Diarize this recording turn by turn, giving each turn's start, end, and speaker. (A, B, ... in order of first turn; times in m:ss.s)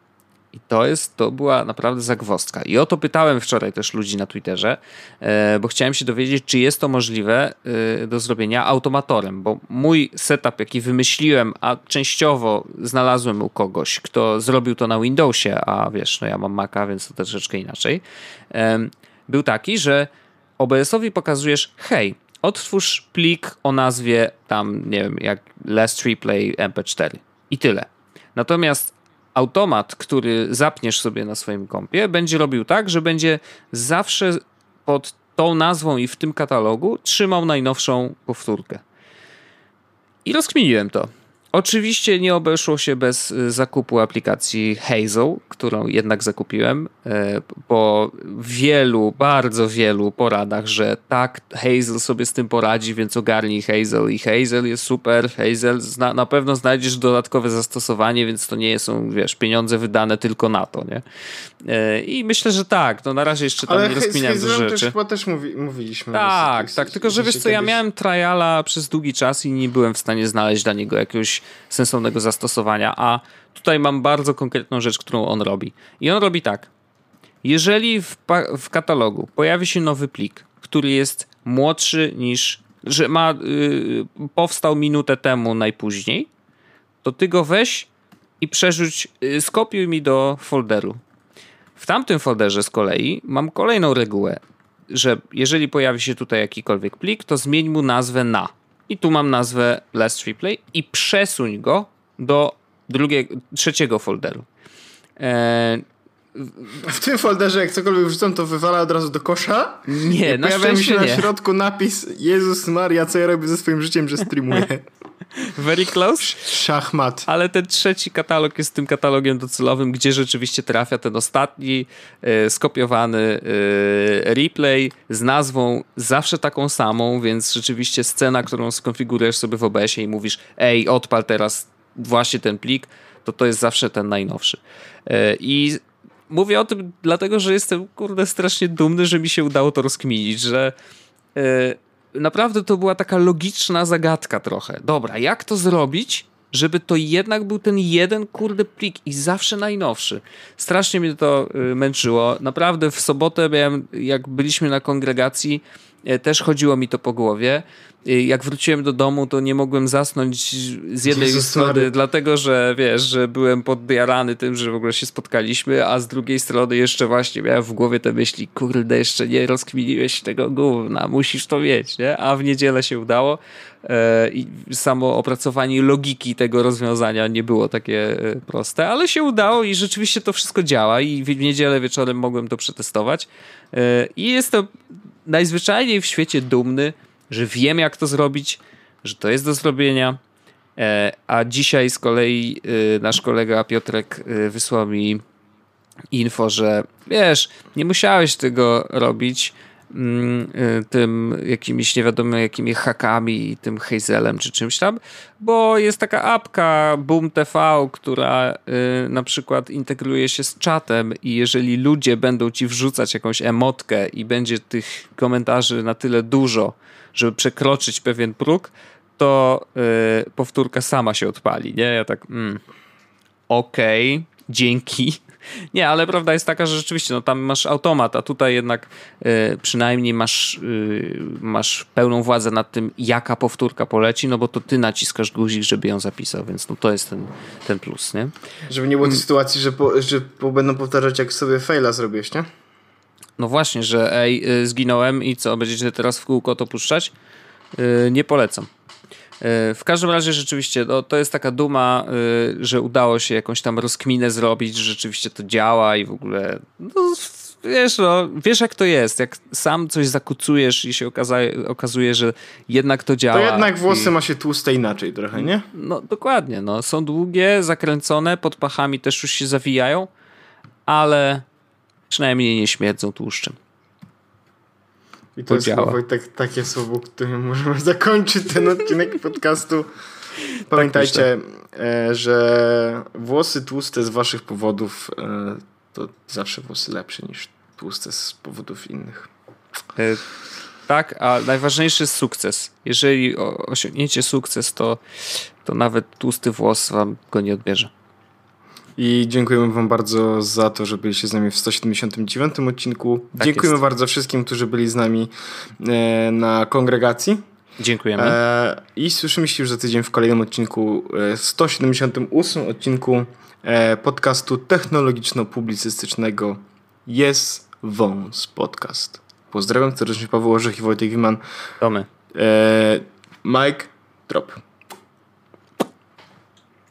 0:00.5-0:38.8 A
0:40.2-1:01.0 A
1:01.6-1:04.9 A
1:03.6-1:07.8 B
1:06.1-1:16.7 A
1:17.4-1:26.3 A
1:27.0-1:27.9 A
1:28.4-1:31.0 A
1:31.8-1:34.4 A
1:34.9-1:44.4 A
1:45.2-1:45.8 A
1:46.4-1:46.8 A
1:46.8-1:54.8 B
1:49.8-1:51.3 A
1:55.4-1:56.4 A
1:56.2-1:57.3 B
1:57.3-2:20.7 A
2:21.4-3:04.7 A
2:41.0-2:41.9 B
3:05.2-3:10.2 A
3:10.8-3:15.2 A
3:16.1-3:42.6 A
3:43.5-3:45.2 A
3:45.7-3:58.3 A
3:58.7-4:02.5 B
4:03.4-4:07.1 A
4:07.8-4:08.7 A
4:09.4-4:24.1 A
4:23.3-4:25.6 B
4:25.4-4:30.1 A
4:30.9-4:31.4 A
4:32.1-4:33.6 A
4:35.4-4:39.9 B
4:35.5-4:36.0 A
4:40.7-4:41.3 A
4:40.7-4:49.3 B
4:50.0-4:50.2 A
4:50.9-4:55.0 A
4:55.6-4:57.9 A
4:59.0-5:07.4 B
5:03.4-5:03.8 A
5:07.8-5:08.4 A
5:08.2-5:21.4 B
5:21.8-5:22.1 A
5:22.3-5:24.6 B